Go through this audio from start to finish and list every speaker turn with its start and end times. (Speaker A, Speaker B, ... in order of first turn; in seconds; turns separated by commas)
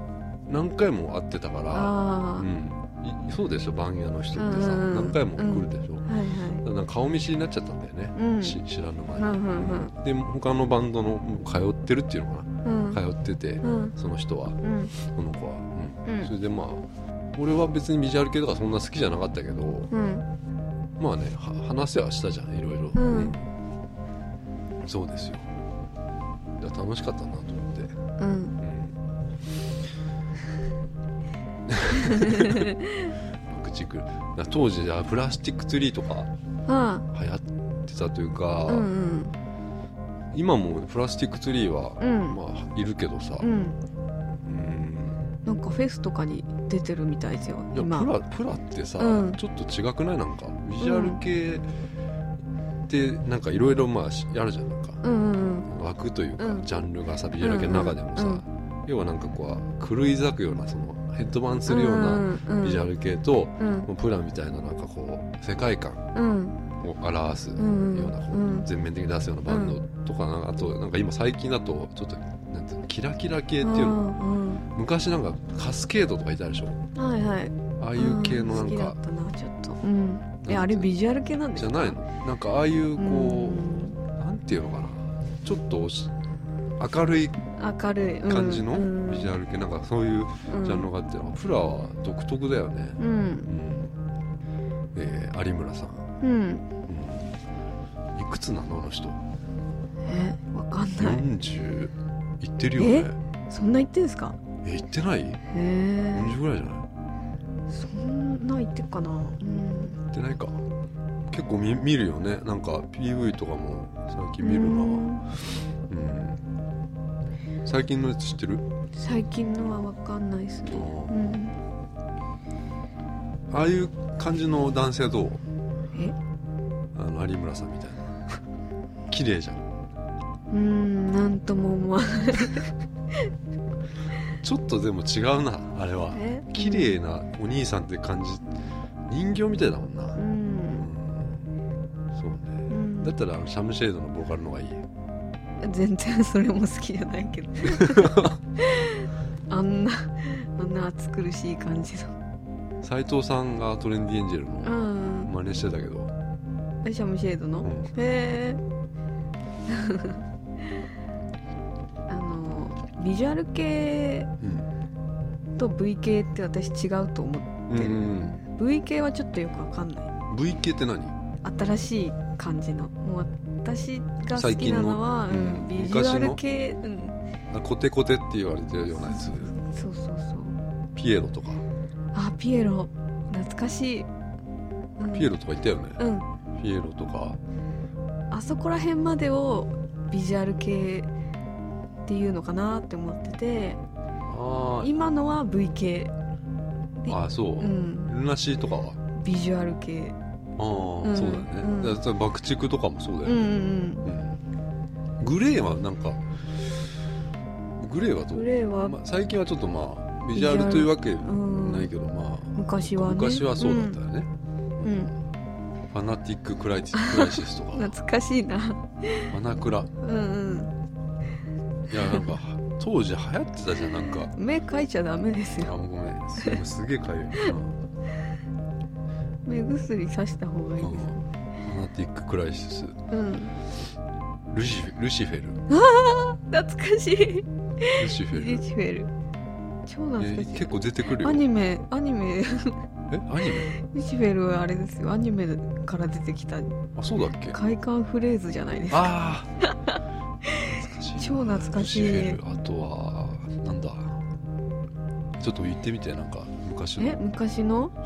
Speaker A: 0.5-6.1, Speaker B: 1.7-2.5, Speaker B: 4.4-6.6, Speaker A: 6.6-16.8, Speaker B: 8.2-8.6, Speaker B: 9.2-9.9, Speaker B: 12.6-13.0, Speaker B: 13.6-13.9, Speaker B: 14.6-14.9, Speaker B: 16.0-16.3, Speaker A: 17.3-19.9, Speaker B: 19.9-20.2, Speaker A: 21.0-23.5, Speaker B: 22.9-23.3, Speaker A: 24.8-25.5, Speaker A: 26.6-27.9, Speaker B: 28.2-28.5, Speaker A: 28.6-28.9, Speaker A: 31.7-32.7, Speaker B: 31.9-33.1, Speaker A: 33.4-36.3, Speaker B: 36.6-37.0, Speaker A: 37.1-38.9, Speaker B: 38.7-39.3, Speaker A: 40.3-43.5, Speaker B: 42.0-42.4, Speaker B: 43.4-43.8, Speaker A: 44.4-45.2, Speaker B: 45.4-48.1, Speaker A: 47.7-51.7, Speaker B: 49.0-49.4, Speaker B: 50.8-51.2, Speaker A: 52.9-55.0, Speaker B: 55.0-55.7, Speaker A: 55.6-66.0, Speaker B: 56.4-56.7, Speaker B: 57.4-58.4, Speaker B: 61.7-62.8, Speaker B: 63.6-63.9, Speaker B: 66.1-66.6, Speaker A: 66.8-74.1, Speaker B: 67.6-68.7, Speaker B: 69.5-69.8, Speaker B: 73.6-74.6, Speaker A: 74.7-76.8, Speaker B: 76.9-82.0, Speaker A: 77.8-79.0, Speaker A: 80.4-80.9, Speaker A: 81.5-86.1, Speaker B: 83.0-84.0, Speaker A: 86.8-87.4, Speaker B: 87.5-89.3, Speaker A: 88.3-93.9, Speaker B: 90.5-90.9, Speaker B: 93.0-93.5, Speaker A: 94.9-96.1, Speaker B: 96.2-96.7, Speaker A: 96.9-97.3, Speaker A: 98.1-99.2, Speaker B: 100.0-101.2, Speaker A: 101.0-103.2, Speaker B: 102.8-104.4, Speaker A: 104.6-105.4, Speaker B: 105.5-106.4, Speaker A: 106.1-106.8, Speaker B: 107.7-110.0, Speaker A: 110.1-110.6, Speaker A: 111.3-115.1, Speaker B: 114.4-115.2, Speaker A: 115.9-116.4, Speaker A: 117.6-118.6, Speaker B: 118.9-121.5, Speaker A: 120.7-121.4, Speaker A: 123.5-125.4, Speaker A: 126.9-128.4, Speaker A: 129.1-129.7, Speaker B: 130.5-132.7, Speaker A: 134.4-138.5, Speaker B: 136.1-137.0, Speaker A: 139.1-140.2, Speaker B: 140.2-140.9, Speaker A: 140.7-141.4, Speaker A: 142.1-144.8, Speaker B: 142.7-143.1, Speaker B: 145.6-152.1, Speaker A: 147.6-148.4, Speaker A: 152.8-156.1, Speaker B: 154.6-155.3, Speaker B: 156.8-158.6, Speaker A: 157.6-157.9, Speaker B: 159.7-160.2, Speaker B: 162.1-164.3, Speaker A: 164.4-164.7, Speaker B: 165.6-170.1, Speaker A: 167.7-168.4, Speaker A: 170.3-171.1, Speaker B: 171.4-177.2, Speaker A: 174.3-176.4, Speaker A: 177.5-179.5, Speaker B: 179.0-180.6, Speaker A: 180.9-181.6, Speaker B: 182.1-184.1, Speaker B: 185.0-185.4, Speaker A: 185.1-186.0, Speaker B: 186.0-186.2, Speaker A: 186.6-187.4, Speaker B: 188.3-191.1, Speaker B: 192.1-193.8, Speaker A: 194.3-194.9, Speaker B: 194.8-196.1, Speaker B: 197.0-198.1, Speaker A: 197.1-199.0, Speaker B: 199.1-200.2, Speaker A: 200.6-203.5, Speaker B: 201.0-202.0, Speaker B: 203.2-204.1, Speaker A: 204.0-204.4, Speaker A: 205.2-206.9, Speaker A: 207.8-215.1, Speaker B: 208.3-209.0, Speaker B: 210.3-211.9, Speaker B: 212.6-214.0, Speaker B: 214.8-215.1, Speaker A: 215.9-217.9, Speaker B: 216.9-219.3, Speaker A: 219.3-219.9, Speaker B: 220.0-220.7, Speaker A: 221.9-224.3, Speaker B: 222.0-222.4, Speaker B: 223.9-225.7, Speaker A: 225.6-227.8, Speaker B: 229.4-231.2, Speaker A: 230.8-233.0, Speaker B: 233.1-233.5, Speaker A: 234.5-235.6, Speaker B: 235.7-239.1, Speaker A: 238.0-238.6, Speaker B: 239.8-242.8, Speaker A: 240.2-241.4, Speaker A: 243.1-243.7, Speaker B: 243.7-246.7, Speaker A: 246.9-247.6, Speaker B: 247.5-249.1, Speaker A: 248.9-249.5, Speaker B: 249.7-250.6, Speaker A: 250.6-254.2, Speaker B: 251.2-252.4, Speaker A: 255.4-257.2, Speaker B: 257.0-257.9